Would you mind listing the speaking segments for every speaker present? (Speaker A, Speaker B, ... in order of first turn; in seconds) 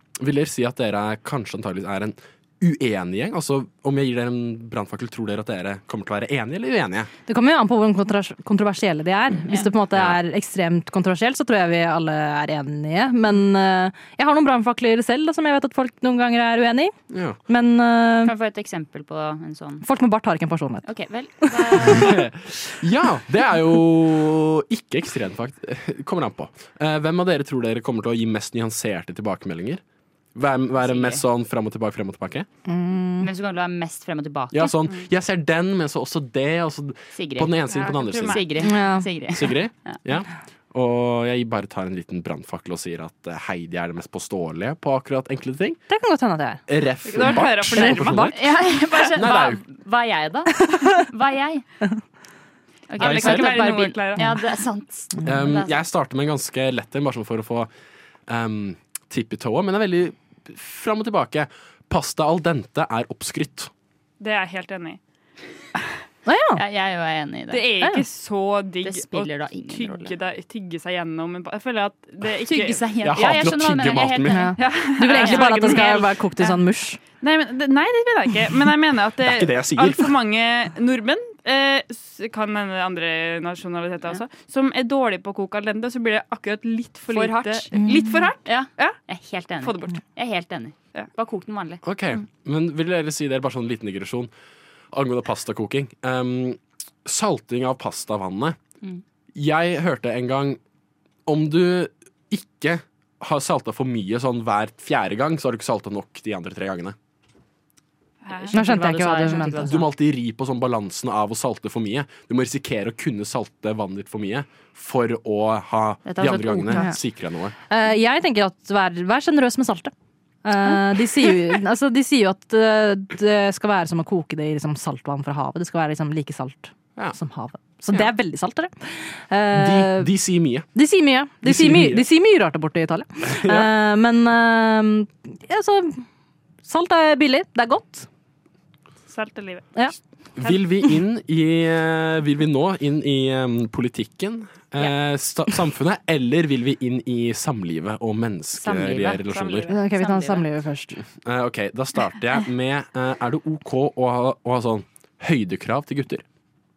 Speaker A: 0.2-7.1, 17.1-17.4, 21.8-29.8, 30.3-32.5, 34.5-38.6, 39.3-45.8, 46.7-49.6, 53.0-53.4, 55.2-57.7, 58.3-63.7, 73.0-74.5, 79.2-80.1, 91.8-94.3, 94.9-98.6, 99.3-100.6, 101.2-107.0, 109.6-117.5, 129.5-130.7, 131.4-132.0, 133.2-133.7, 140.3-149.7, 150.9-156.2
Speaker B: 7.3-16.9, 17.5-18.3, 19.8-20.9, 32.7-33.3, 38.6-39.1, 45.9-46.6, 47.3-48.3, 66.2-66.6, 74.3-77.0, 87.8-88.1, 108.5-109.7, 117.7-119.9, 120.4-130.1, 130.7-136.0, 136.6-138.1, 149.7-151.0
Speaker C: 18.2-19.8, 20.8-22.2, 30.8-31.2, 33.2-34.9, 37.1-40.0, 48.3-51.6, 52.9-55.8, 66.5-67.6, 68.8-70.1, 72.5-74.5, 75.1-75.9, 87.1-87.7, 88.4-91.8, 108.3-109.8, 116.0-116.9, 148.6-149.2, 149.9-150.4
Speaker D: 37.7-38.6, 47.0-49.1, 53.0-54.4, 64.2-65.0, 67.5-72.8, 74.6-76.6, 77.2-89.0, 89.6-90.0, 108.2-108.6, 139.1-139.7, 149.3-149.7